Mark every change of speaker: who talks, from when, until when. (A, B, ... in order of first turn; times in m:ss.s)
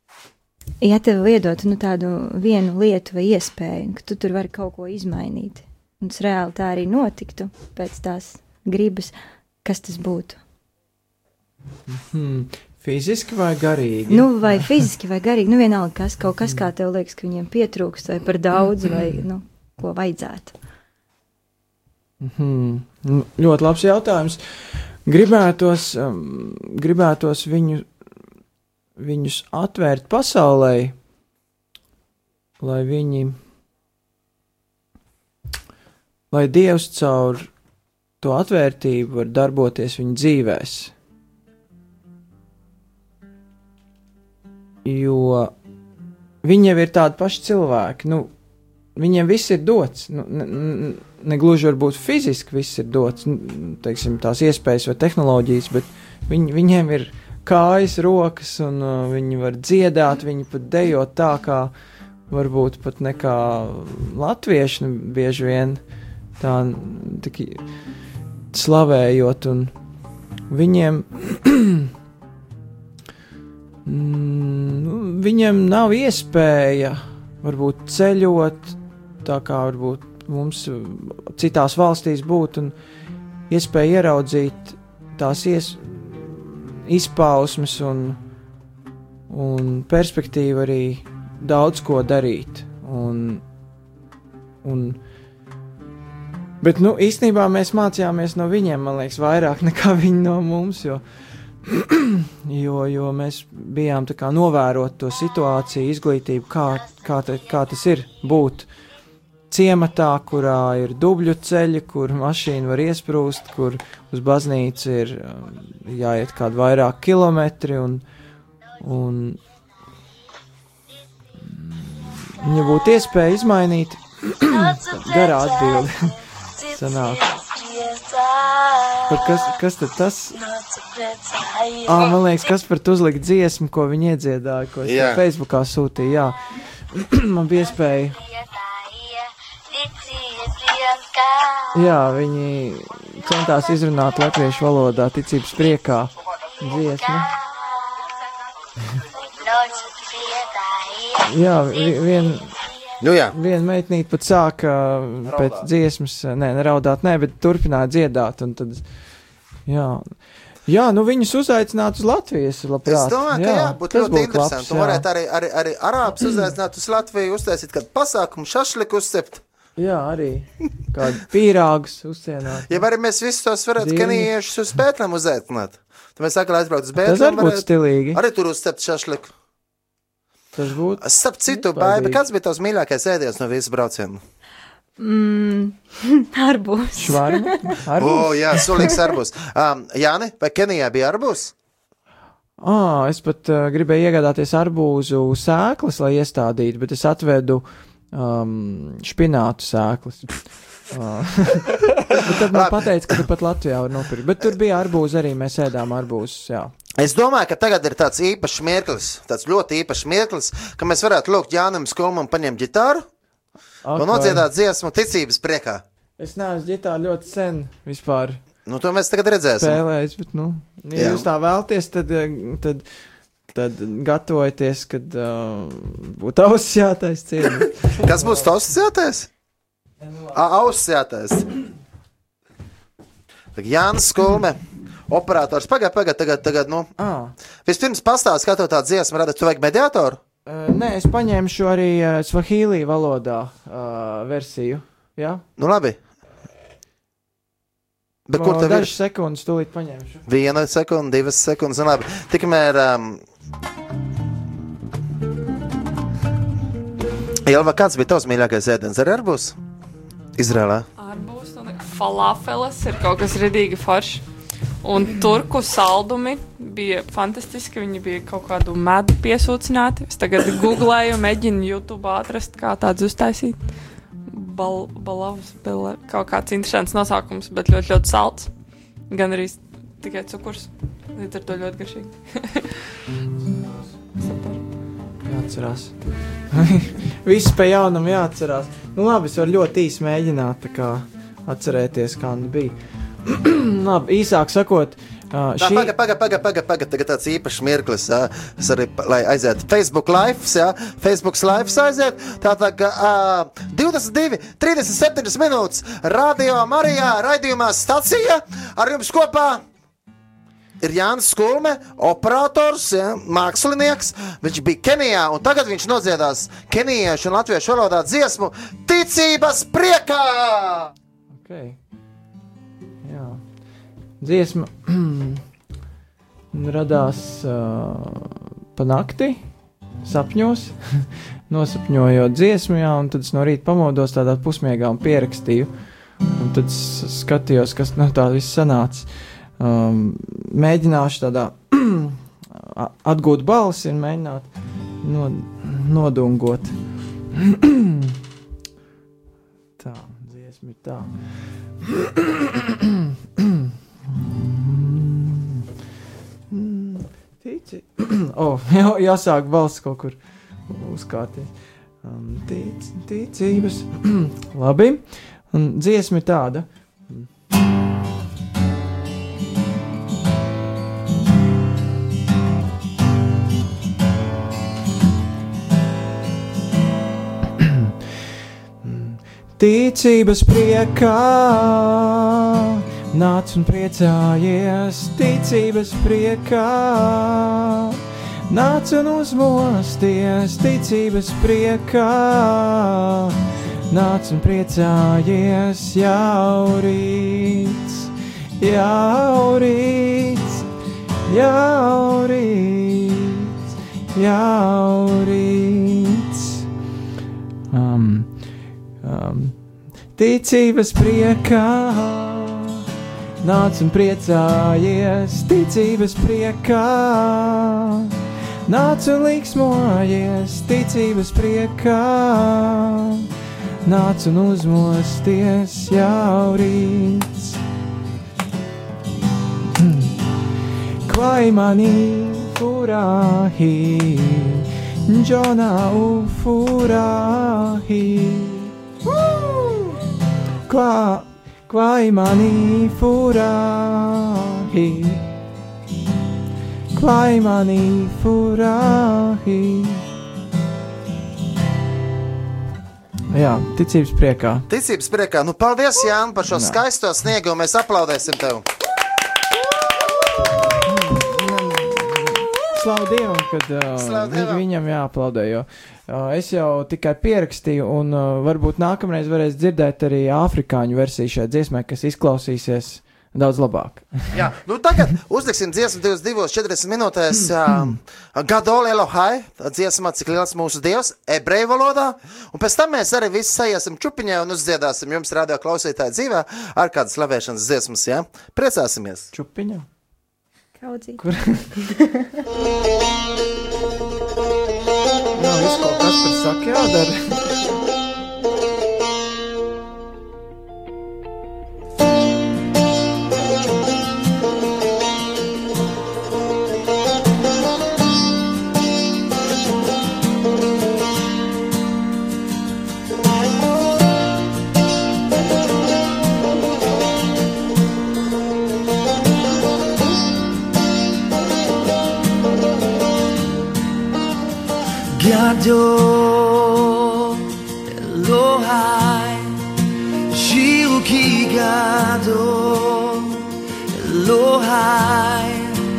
0:00.8-0:10.4 A
0:11.9-0:14.7 B
0:14.1-0:20.5 A
0:22.2-0:27.9 B
0:29.0-0:31.0 B
0:32.6-0:33.4 B
0:36.3-0:37.5 B
0:38.2-0:40.9 B
0:44.8-0:45.5 B
0:46.4-0:48.3 B
0:49.0-1:01.7 B
1:02.3-1:05.8 B
1:06.4-1:07.6 B
1:08.5-1:09.7 B
1:10.5-1:11.8 B
1:13.8-1:22.7 B
1:23.5-1:28.2 B
1:29.3-1:33.4 B
1:34.6-1:35.0 B
1:36.6-1:41.0 B
1:41.6-1:48.7 B
1:49.5-1:58.0 B
1:58.8-1:59.4 B
2:01.4-2:06.1 B
2:06.6-2:07.4 B
2:09.1-2:10.4 B
2:11.8-2:18.2 B
2:14.8-2:15.2 C
2:21.7-2:27.3 B
2:31.3-2:32.6 B
2:33.0-2:33.3 C
2:33.3-2:38.9 B
2:35.2-2:35.7 C
2:39.6-2:45.0 B
2:42.8-2:49.4 C
2:49.8-2:52.8 B
2:52.7-2:59.3 C
2:53.8-2:54.3 B
2:57.0-2:58.2 B
3:00.5-3:02.2 B
3:01.0-3:04.2 C
3:05.0-3:07.5 A
3:07.0-3:08.9 B
3:08.0-3:11.5 C
3:12.6-3:26.7 B
3:22.1-3:23.2 C
3:27.0-3:33.0 C
3:33.8-3:34.4 B
3:34.0-3:35.8 C
3:36.2-3:38.4 B
3:38.6-3:39.8 C
3:39.6-3:42.9 B
3:40.9-3:41.2 C
3:43.5-3:48.5 B
3:48.0-3:49.3 C
3:50.0-3:50.3 B
3:50.3-3:51.5 C
3:53.5-3:56.9 C
3:57.0-3:57.3 B
3:57.6-4:00.2 C
4:00.4-4:05.4 B
4:05.6-4:06.0 C
4:08.3-4:08.9 C
4:08.3-4:10.2 B
4:10.2-4:13.2 C
4:17.4-4:19.6 C
4:20.4-4:20.8 C
4:21.0-4:24.2 D
4:24.8-4:33.7 D
4:34.3-4:38.5 D
4:39.1-4:42.8 D
4:44.2-4:44.6 D
4:45.2-4:55.9 B
4:55.6-5:09.6 C
5:10.8-5:20.9 C
5:21.3-5:21.8 B
5:23.0-5:23.4 B
5:24.2-5:25.4 B
5:26.5-5:29.4 B
5:30.0-5:35.7 B
5:36.3-5:44.5 B
5:45.0-5:46.7 B
5:47.3-5:48.1 B
5:49.8-5:51.1 B
5:51.8-5:55.6 B
5:56.5-6:07.3 B
6:17.6-6:17.9 B
6:18.8-6:22.3 B
6:23.1-6:28.0 B
6:28.5-6:33.4 B
6:33.9-6:38.1 B
6:38.6-6:40.6 B
6:41.3-6:43.5 B
6:44.1-6:46.6 B
6:47.7-6:48.4 B
6:49.0-6:52.8 B
6:53.4-6:58.1 B
6:58.6-7:03.3 B
7:03.8-7:07.6 B
7:09.8-7:10.2 B
7:11.0-7:18.7 B
7:19.1-7:19.9 C
7:20.7-7:25.3 B
7:26.9-7:30.0 B
7:33.3-7:34.7 B
7:34.7-7:38.6 C
7:36.5-7:36.8 B
7:40.6-7:54.3 B
7:43.9-7:44.6 C
7:54.3-8:09.3 C
8:09.3-8:09.8 B
8:10.8-8:12.2 A
8:11.2-8:11.8 B
8:15.4-8:17.6 B
8:45.1-8:49.6 E
8:50.3-8:55.8 E